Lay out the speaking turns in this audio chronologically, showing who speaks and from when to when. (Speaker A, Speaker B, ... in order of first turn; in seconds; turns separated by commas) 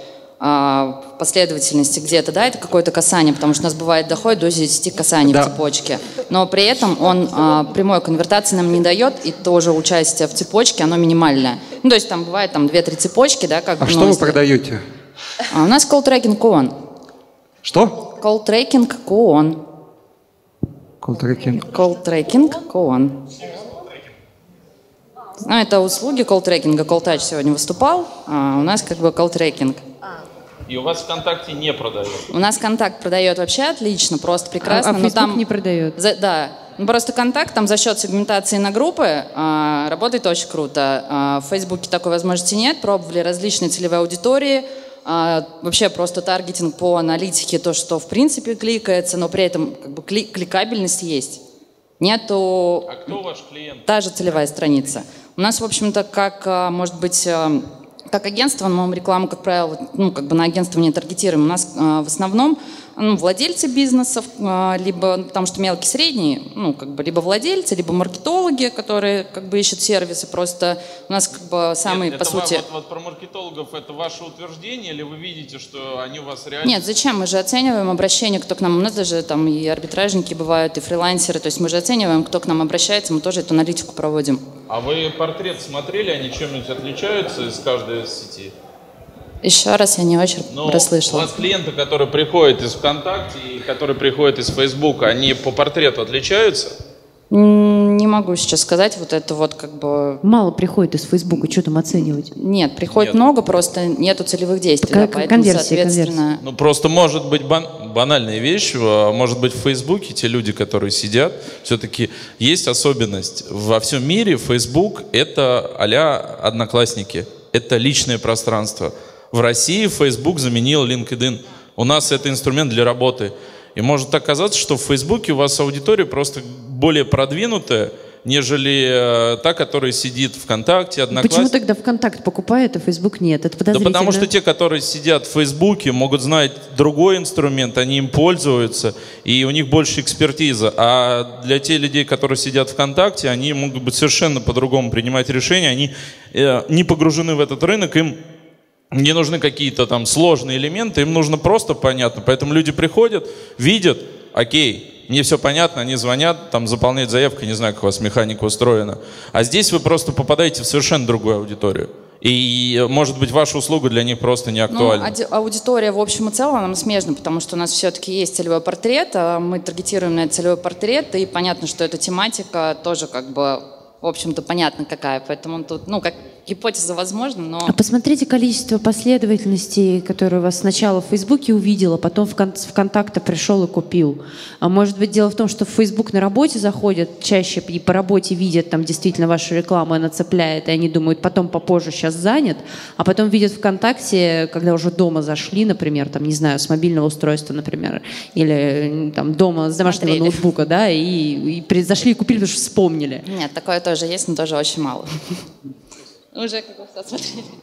Speaker A: 0.4-14.4, Speaker B: 5.2-5.5, Speaker B: 13.8-14.8, Speaker A: 15.5-16.7, Speaker B: 17.6-17.9, Speaker A: 18.1-19.6, Speaker B: 21.0-21.7, Speaker A: 21.6-23.2, Speaker A: 25.4-29.8, Speaker C: 30.7-32.2, Speaker A: 32.3-35.4, Speaker D: 34.6-36.0, Speaker A: 36.0-51.4, Speaker A: 52.0-52.9, Speaker C: 52.9-53.8, Speaker A: 53.9-72.6, Speaker C: 71.8-76.8, Speaker A: 76.6-84.4, Speaker C: 84.7-88.5, Speaker A: 89.4-91.3, Speaker C: 90.5-96.8, Speaker A: 97.3-100.2, Speaker D: 100.2-102.3, Speaker A: 102.3-106.4, Speaker C: 102.9-103.2, Speaker D: 104.8-106.2, Speaker C: 106.4-131.5, Speaker D: 131.1-134.3, Speaker C: 133.7-148.2, Speaker C: 148.9-165.1, Speaker A: 164.7-177.8, Speaker D: 177.7-203.2, Speaker A: 199.8-200.4, Speaker A: 203.2-205.3, Speaker A: 206.3-207.5